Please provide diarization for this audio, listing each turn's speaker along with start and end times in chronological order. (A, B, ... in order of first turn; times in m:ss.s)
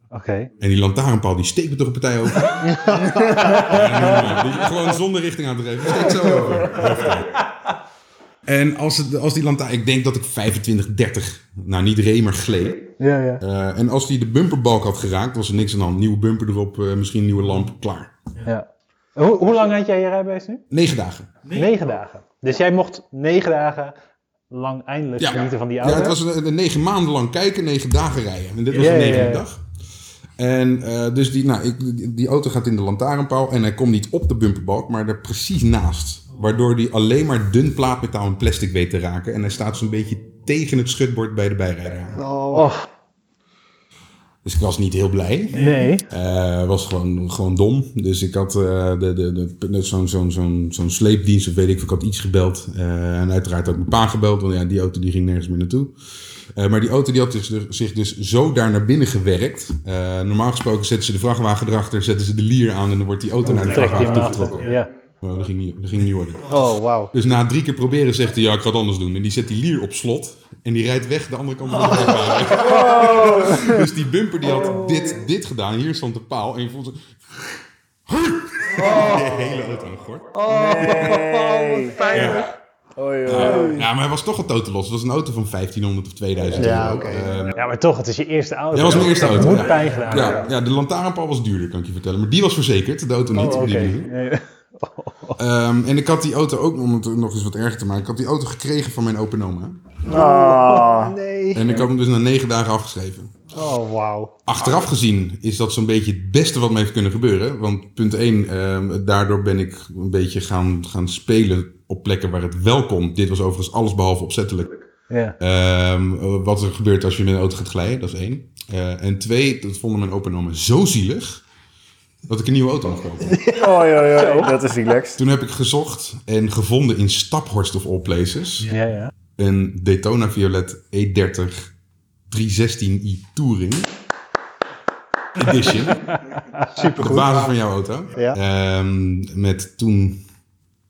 0:00.1-0:00.5 A
0:00.6-0:07.5 B
0:02.7-0:03.8 C
0:03.1-0:04.0 A
0:08.5-0:18.1 B
0:13.0-0:13.4 A
0:18.4-0:20.6 A
0:20.7-0:21.4 B
0:21.5-0:23.9 A
0:24.5-0:26.2 A
0:25.2-0:29.6 B
0:28.7-0:29.4 A
0:30.4-0:42.2 B
0:42.2-0:42.7 C
0:42.5-0:42.8 A
0:44.4-1:06.6 B
0:45.5-0:46.1 A
1:03.5-1:04.9 A
1:06.5-1:07.1 C
1:07.1-1:17.1 B
1:11.8-1:13.3 A
1:12.6-1:13.9 D
1:14.4-1:15.2 A
1:18.1-1:20.3 B
1:18.8-1:19.4 A
1:20.3-1:22.5 A
1:20.5-1:22.2 D
1:22.1-1:22.5 B
1:23.0-1:23.8 D
1:23.3-1:27.6 B
1:23.3-1:23.8 A
1:26.6-1:27.4 C
1:27.5-1:30.5 A
1:28.7-1:34.1 B
1:33.3-1:35.4 A
1:35.4-1:39.9 B
1:40.1-1:41.8 C
1:40.1-1:41.2 D
1:41.5-1:43.4 B
1:43.5-1:44.3 C
1:44.5-1:54.8 B
1:55.1-1:55.4 A
1:55.4-2:01.4 B
2:02.3-2:03.4 B
2:03.3-2:03.6 C
2:03.4-2:05.2 D
2:04.1-2:04.6 A
2:05.2-2:08.8 B
2:08.7-2:09.1 A
2:09.4-2:11.7 B
2:12.3-2:13.9 B
2:15.4-2:16.2 B
2:16.3-2:17.0 A
2:16.7-2:17.5 C
2:17.0-2:20.2 B